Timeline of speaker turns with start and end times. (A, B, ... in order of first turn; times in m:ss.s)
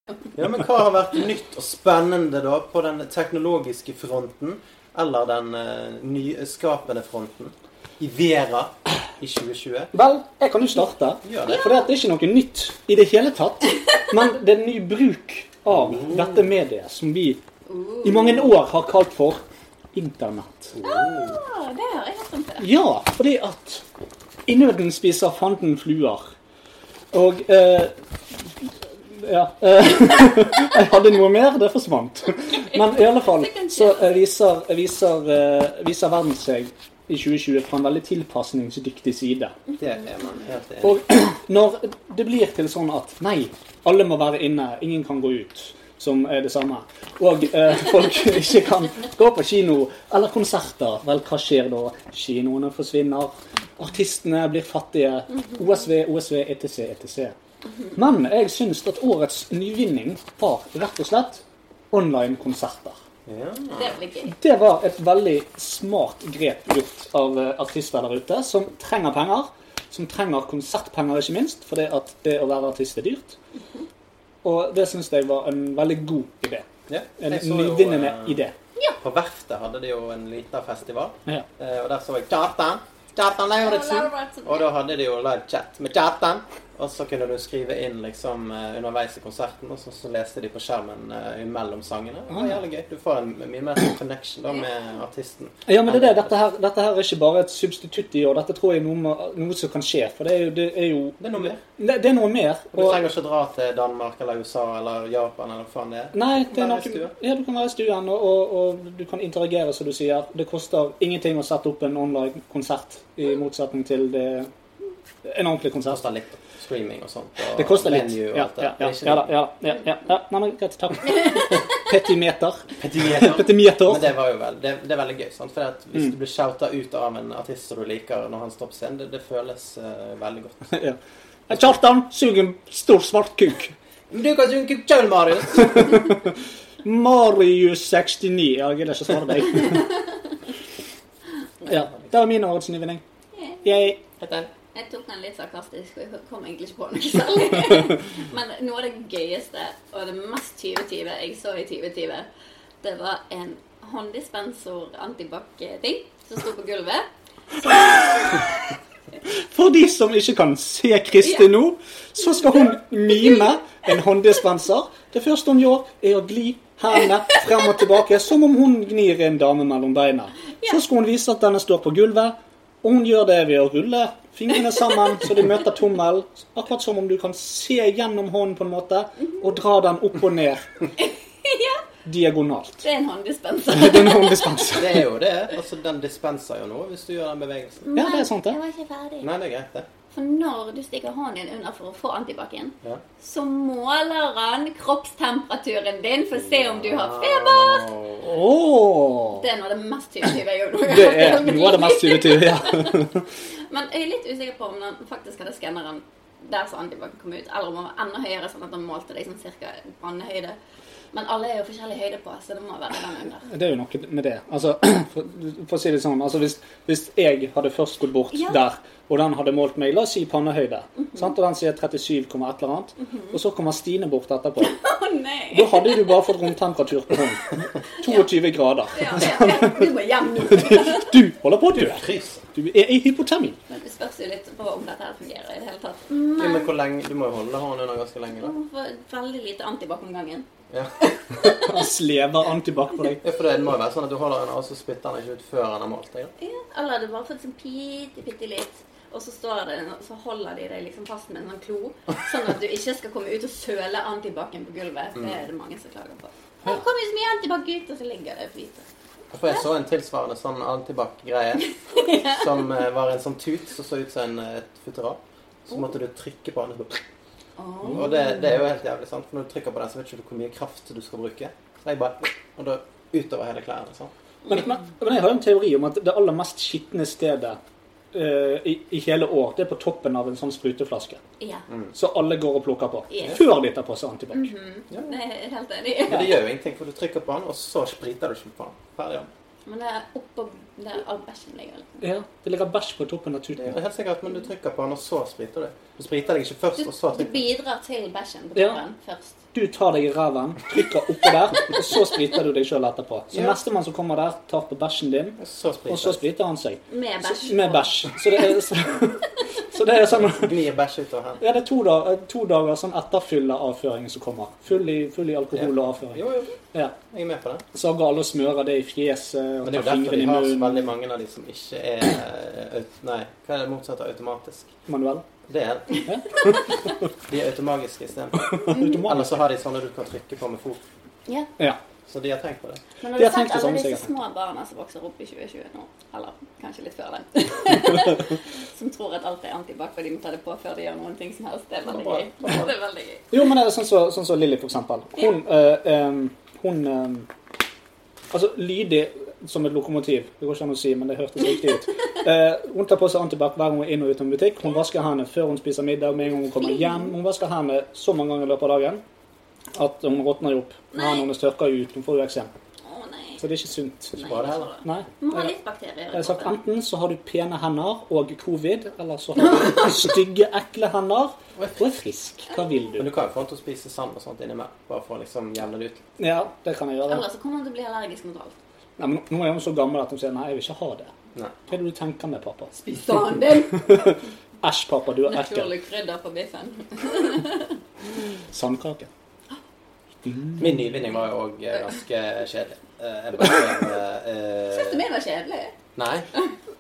0:00.4-0:09.9 A
0:09.9-0:17.4 B
0:11.2-0:11.7 A
0:15.7-0:16.4 A
0:17.7-0:18.5 C
0:18.0-0:20.8 B
0:20.7-0:21.4 A
0:20.8-0:22.7 C
0:22.6-0:23.8 B
0:24.5-0:26.3 B
0:27.1-0:39.6 B
0:32.6-0:34.3 C
0:39.8-0:41.0 A
0:40.8-0:57.4 B
0:58.0-1:03.0 B
1:03.3-1:04.0 A
1:03.8-1:04.4 C
1:04.3-1:13.4 B
1:14.4-1:18.5 B
1:16.9-1:18.4 A
1:19.0-1:36.4 A
1:23.6-1:24.7 C
1:32.3-1:32.6 B
1:35.7-1:43.1 B
1:41.2-1:41.6 A
1:42.7-1:47.1 A
1:46.1-1:54.5 B
1:55.2-1:56.0 B
1:55.9-1:59.3 A
1:57.5-2:04.1 B
2:02.8-2:10.8 A
2:10.7-2:13.7 B
2:14.1-2:16.0 A
2:15.7-2:16.2 B
2:16.8-2:19.9 B
2:21.7-2:23.0 B
2:23.4-2:23.9 C
2:23.6-2:24.0 B
2:24.2-2:24.5 A
2:24.8-2:32.3 C
2:32.8-2:38.5 C
2:37.7-2:38.5 B
2:39.4-3:00.9 B
2:41.2-2:41.5 C
3:01.0-3:01.8 C
3:02.0-3:02.8 B
3:02.8-3:04.8 C
3:03.7-3:05.0 B
3:04.8-3:07.9 A
3:07.8-3:09.3 C
3:07.9-3:08.6 B
3:09.2-3:09.9 A
3:10.1-3:18.0 C
3:16.4-3:18.4 A
3:18.2-3:19.4 B
3:19.4-3:23.1 C
3:20.9-3:23.2 B
3:23.7-3:30.6 C
3:31.1-3:33.5 C
3:33.5-3:44.8 B
3:38.3-3:38.6 C
3:43.0-3:43.4 C
3:44.6-3:46.5 C
3:45.5-3:49.9 B
3:48.0-3:48.3 C
3:48.9-3:51.1 C
3:50.5-3:53.6 B
3:51.7-3:52.4 A
3:53.7-3:56.7 C
3:56.4-3:58.6 A
3:58.4-4:00.5 C
4:00.7-4:01.0 A
4:01.1-4:01.7 C
4:01.4-4:03.2 B
4:03.2-4:06.3 A
4:06.4-4:18.8 C
4:15.2-4:15.4 A
4:19.3-4:27.0 A
4:22.0-4:22.4 C
4:27.6-4:28.6 C
4:27.9-4:34.1 A
4:34.5-4:37.6 B
4:38.1-4:41.2 B
4:41.4-4:41.6 C
4:41.9-4:44.5 B
4:43.1-4:43.4 C
4:44.3-4:46.4 C
4:44.9-4:45.2 A
4:46.1-4:49.3 A
4:49.7-4:52.0 C
4:52.0-4:53.8 B
4:53.6-4:57.4 A
4:56.8-4:59.4 C
4:59.5-5:10.5 B
5:03.3-5:03.6 A
5:05.4-5:06.2 A
5:06.9-5:08.4 C
5:10.1-5:11.4 A
5:11.4-5:16.2 B
5:15.5-5:17.6 A
5:17.7-5:20.8 B
5:19.6-5:24.7 A
5:24.9-5:25.2 B
5:25.5-5:26.0 A
5:26.1-5:26.6 B
5:27.3-5:30.8 A
5:28.6-5:29.4 B
5:28.7-5:29.0 C
5:32.1-5:32.8 A
5:33.0-5:43.4 C
5:33.2-5:34.1 B
5:41.9-5:42.7 A
5:43.3-5:47.3 B
5:48.3-5:59.0 B
5:56.6-5:57.1 C
5:59.8-6:02.5 B
6:00.9-6:01.3 C
6:02.8-6:03.4 C
6:03.4-6:04.2 B
6:04.2-6:06.6 C
6:04.2-6:04.7 A
6:04.8-6:05.5 B
6:06.1-6:13.1 B
6:11.6-6:11.8 A
6:12.5-6:12.9 C
6:13.0-6:16.0 A
6:16.2-6:17.2 B
6:17.1-6:18.6 C
6:19.0-6:21.1 B
6:21.7-6:22.7 B
6:22.7-6:24.2 C
6:23.8-6:25.7 B
6:25.3-6:27.8 C
6:28.5-6:29.1 B
6:30.3-6:30.7 B
6:30.6-6:35.0 A
6:34.7-6:35.8 C
6:36.0-6:36.3 A